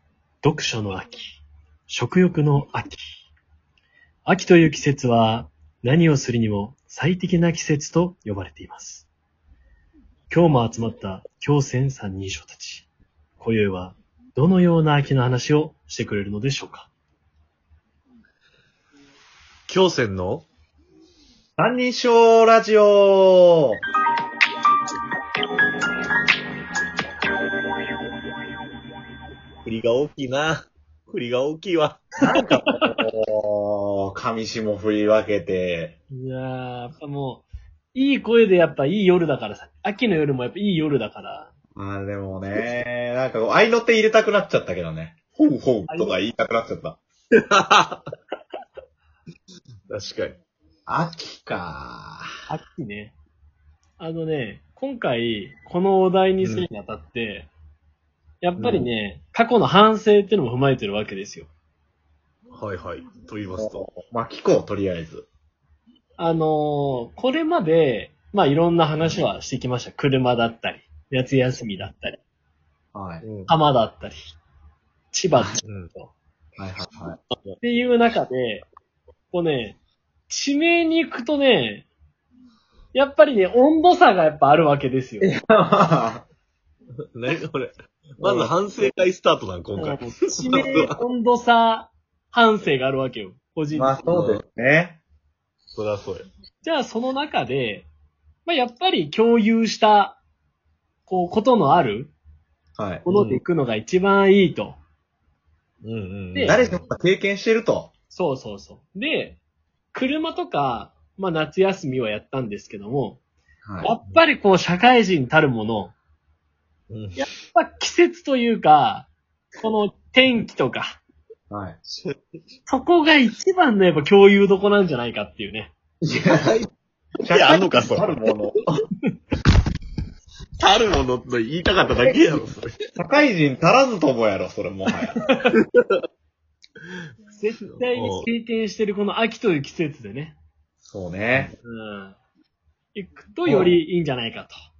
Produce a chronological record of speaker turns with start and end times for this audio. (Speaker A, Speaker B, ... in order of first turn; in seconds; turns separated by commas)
Speaker A: 0.4-3.3, Speaker A: 4.2-9.1, Speaker A: 10.3-12.9, Speaker A: 13.4-16.9, Speaker B: 19.7-20.5, Speaker C: 21.6-23.8, Speaker B: 29.6-32.1, Speaker C: 32.2-36.0, Speaker A: 32.4-32.9, Speaker A: 36.1-41.5, Speaker C: 41.8-47.0, Speaker A: 45.9-46.2, Speaker B: 47.5-48.0, Speaker B: 49.9-50.4, Speaker C: 50.9-52.3, Speaker A: 52.5-53.2, Speaker A: 54.0-57.5, Speaker B: 56.4-56.7, Speaker A: 58.4-61.5, Speaker B: 58.6-58.9, Speaker B: 62.5-63.9, Speaker C: 63.5-65.3, Speaker A: 66.2-72.2, Speaker C: 72.9-73.2, Speaker B: 73.2-73.5, Speaker A: 73.5-74.4, Speaker A: 75.1-76.1, Speaker C: 75.3-75.6, Speaker B: 75.6-75.9, Speaker C: 76.6-77.2, Speaker B: 77.3-77.6, Speaker A: 77.6-78.7, Speaker A: 79.3-79.8, Speaker A: 80.3-81.9, Speaker A: 82.9-85.3, Speaker C: 85.2-86.2, Speaker B: 87.2-90.9, Speaker C: 88.2-88.5, Speaker A: 89.8-94.0, Speaker C: 93.7-95.0, Speaker B: 94.1-94.4, Speaker B: 95.7-96.3, Speaker A: 96.6-97.9, Speaker A: 98.5-100.2, Speaker A: 101.1-102.1, Speaker C: 102.8-103.0, Speaker A: 103.0-104.8, Speaker B: 103.1-103.4, Speaker B: 105.8-106.8, Speaker C: 106.4-107.9, Speaker A: 108.1-109.4, Speaker A: 109.9-113.2, Speaker C: 113.7-113.9, Speaker A: 113.8-116.0, Speaker B: 116.9-117.2, Speaker A: 117.2-119.1, Speaker A: 119.6-121.0, Speaker C: 121.5-121.8, Speaker B: 121.8-122.1, Speaker A: 122.7-125.7, Speaker C: 126.0-126.5, Speaker B: 126.3-126.7, Speaker C: 127.2-128.6, Speaker B: 127.3-128.7, Speaker B: 130.6-132.7, Speaker C: 133.0-135.2, Speaker A: 135.2-135.5, Speaker B: 135.5-136.0, Speaker A: 137.3-140.4, Speaker B: 137.6-138.3, Speaker C: 140.8-141.5, Speaker A: 141.7-142.2, Speaker A: 142.9-144.5, Speaker C: 143.5-143.8